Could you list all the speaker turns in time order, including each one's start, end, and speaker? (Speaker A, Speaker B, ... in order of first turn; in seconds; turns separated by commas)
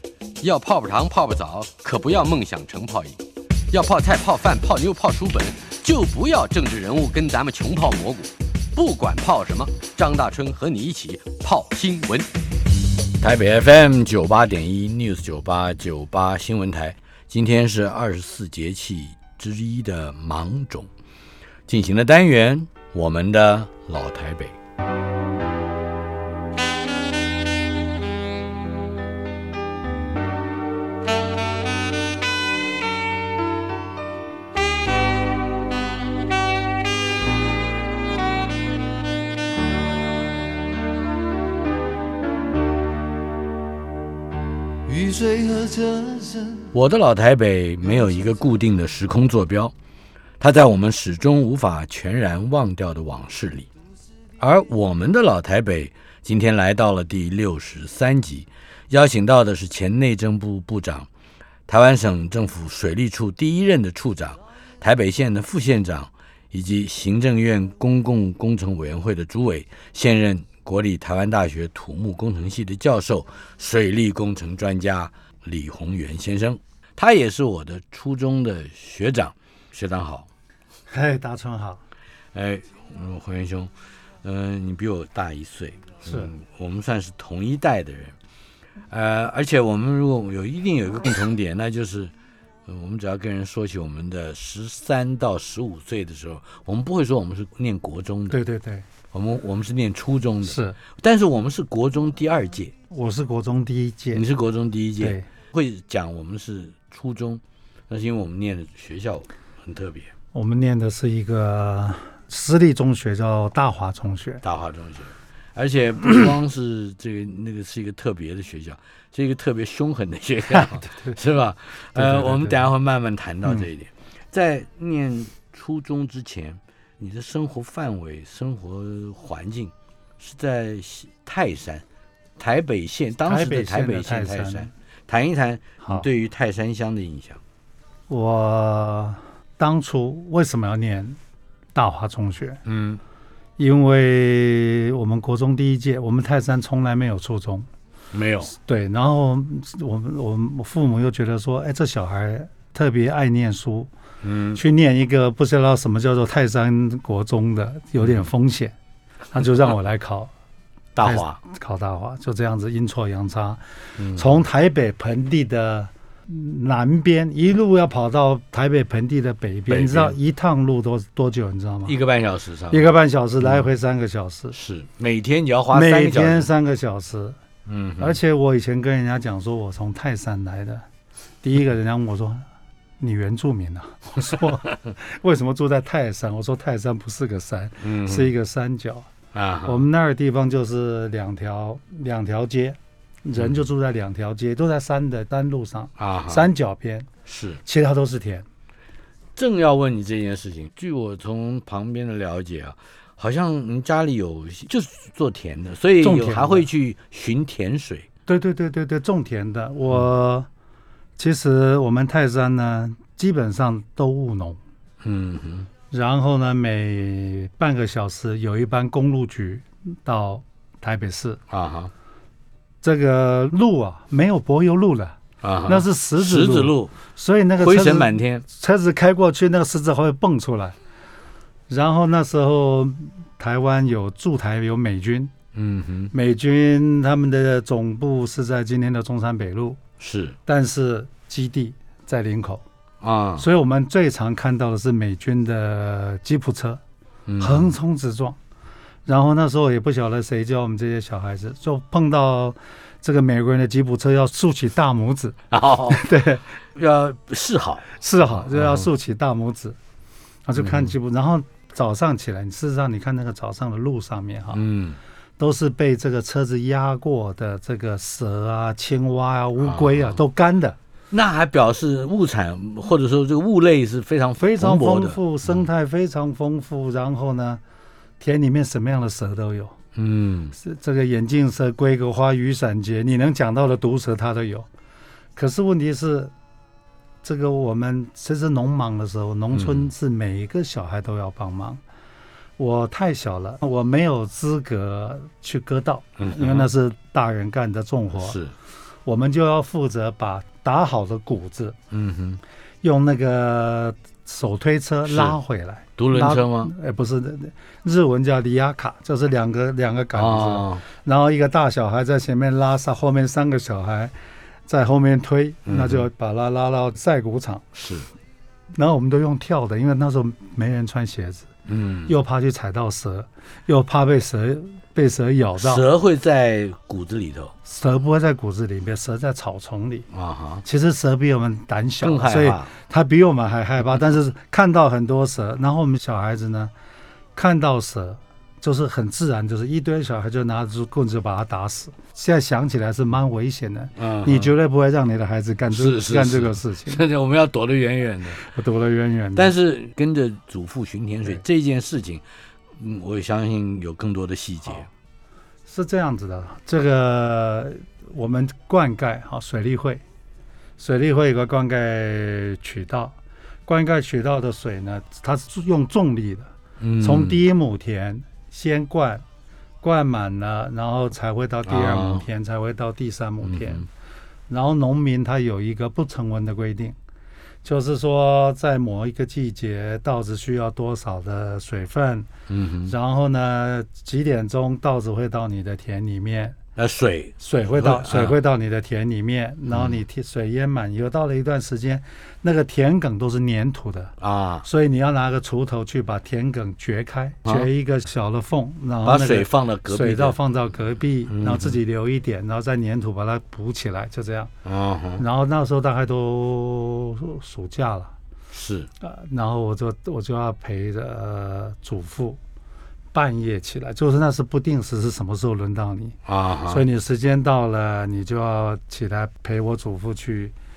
Speaker A: 0.4-3.2, Speaker A: 3.7-12.3, Speaker B: 13.2-20.9, Speaker B: 21.7-24.6, Speaker C: 44.9-46.7, Speaker B: 46.7-49.7, Speaker C: 47.9-48.3, Speaker B: 50.4-53.7, Speaker B: 54.4-61.1, Speaker B: 61.7-80.3, Speaker D: 80.9-81.8, Speaker B: 82.3-83.7, Speaker B: 84.2-88.2, Speaker D: 86.0-86.3, Speaker B: 88.9-92.1, Speaker B: 92.7-98.4, Speaker D: 98.3-98.8, Speaker B: 99.1-102.7, Speaker D: 100.4-100.8, Speaker D: 102.9-104.2, Speaker B: 104.1-110.1, Speaker D: 105.0-105.3, Speaker D: 110.3-114.4, Speaker B: 114.4-131.8, Speaker D: 120.5-121.2, Speaker D: 122.0-122.7, Speaker B: 132.4-137.4, Speaker D: 133.2-134.7, Speaker D: 135.8-136.1, Speaker D: 138.1-141.2, Speaker D: 141.8-142.6, Speaker B: 142.7-143.0, Speaker D: 143.6-147.7, Speaker B: 148.1-148.5, Speaker D: 148.5-153.9, Speaker B: 154.2-154.6, Speaker D: 154.6-158.8, Speaker B: 158.0-158.3, Speaker D: 159.3-160.3, Speaker B: 160.9-161.4, Speaker D: 161.0-163.6, Speaker B: 164.0-164.4, Speaker D: 164.1-172.0, Speaker B: 169.7-170.2, Speaker B: 171.8-173.7, Speaker D: 172.7-174.6, Speaker B: 174.5-176.5, Speaker D: 175.7-177.4, Speaker B: 177.7-178.2, Speaker D: 178.0-180.8, Speaker D: 181.4-182.4, Speaker D: 183.0-189.1, Speaker B: 187.8-188.3, Speaker B: 189.3-189.8, Speaker D: 189.6-197.1, Speaker B: 193.3-193.7, Speaker B: 196.0-196.5, Speaker B: 197.3-197.6, Speaker D: 197.6-198.5, Speaker B: 199.4-208.1, Speaker D: 206.0-206.7, Speaker D: 208.3-210.5, Speaker D: 211.2-214.6, Speaker B: 215.0-215.7, Speaker D: 215.9-221.4, Speaker B: 221.5-221.9, Speaker D: 222.8-230.8, Speaker B: 225.4-226.9, Speaker B: 227.6-228.4, Speaker D: 231.7-235.3, Speaker B: 235.5-236.1, Speaker D: 236.1-239.8, Speaker B: 240.0-240.4, Speaker D: 240.5-242.6, Speaker B: 243.0-243.5, Speaker D: 243.4-246.8, Speaker B: 247.3-247.8, Speaker D: 247.4-248.4, Speaker D: 249.1-256.6, Speaker B: 255.5-256.1, Speaker B: 256.7-258.9, Speaker D: 257.9-259.8, Speaker D: 260.5-264.6, Speaker B: 260.6-260.9, Speaker B: 264.5-265.0, Speaker D: 265.4-270.8, Speaker B: 269.6-270.2, Speaker B: 271.1-275.6, Speaker D: 274.4-277.6, Speaker D: 278.2-279.8, Speaker B: 279.9-280.6, Speaker D: 280.6-284.7, Speaker D: 285.4-286.3, Speaker D: 287.2-291.8, Speaker B: 289.5-289.9, Speaker D: 292.6-298.4, Speaker B: 296.2-296.7, Speaker B: 298.2-298.5, Speaker D: 299.1-301.8, Speaker B: 301.9-302.4, Speaker D: 302.8-314.1, Speaker B: 305.1-305.4, Speaker B: 306.0-306.7, Speaker B: 310.1-310.8, Speaker D: 314.7-317.7, Speaker B: 315.7-316.1, Speaker B: 317.8-318.1, Speaker D: 318.7-321.5, Speaker B: 321.7-322.1, Speaker D: 322.1-325.9, Speaker B: 325.6-327.5, Speaker D: 327.6-330.1, Speaker B: 330.1-330.6, Speaker D: 330.6-336.7, Speaker B: 332.0-332.7, Speaker D: 337.4-347.0, Speaker B: 344.0-344.5, Speaker B: 345.7-348.4, Speaker D: 348.4-349.5, Speaker B: 349.4-352.2, Speaker B: 352.8-354.9, Speaker D: 355.7-360.0, Speaker D: 360.8-369.2, Speaker B: 366.8-367.4, Speaker D: 369.8-373.9, Speaker B: 371.7-372.2, Speaker B: 373.4-373.9, Speaker D: 374.5-377.0, Speaker D: 377.6-382.3, Speaker B: 382.5-382.9, Speaker D: 382.9-386.6, Speaker B: 386.8-388.4, Speaker D: 387.4-404.5, Speaker B: 389.7-390.0, Speaker B: 394.2-394.7, Speaker B: 397.4-397.7, Speaker B: 399.0-400.4, Speaker B: 401.3-401.8, Speaker B: 404.6-405.2, Speaker D: 405.2-408.1, Speaker B: 408.5-408.9, Speaker D: 409.0-412.4, Speaker D: 413.1-420.5, Speaker B: 416.3-416.9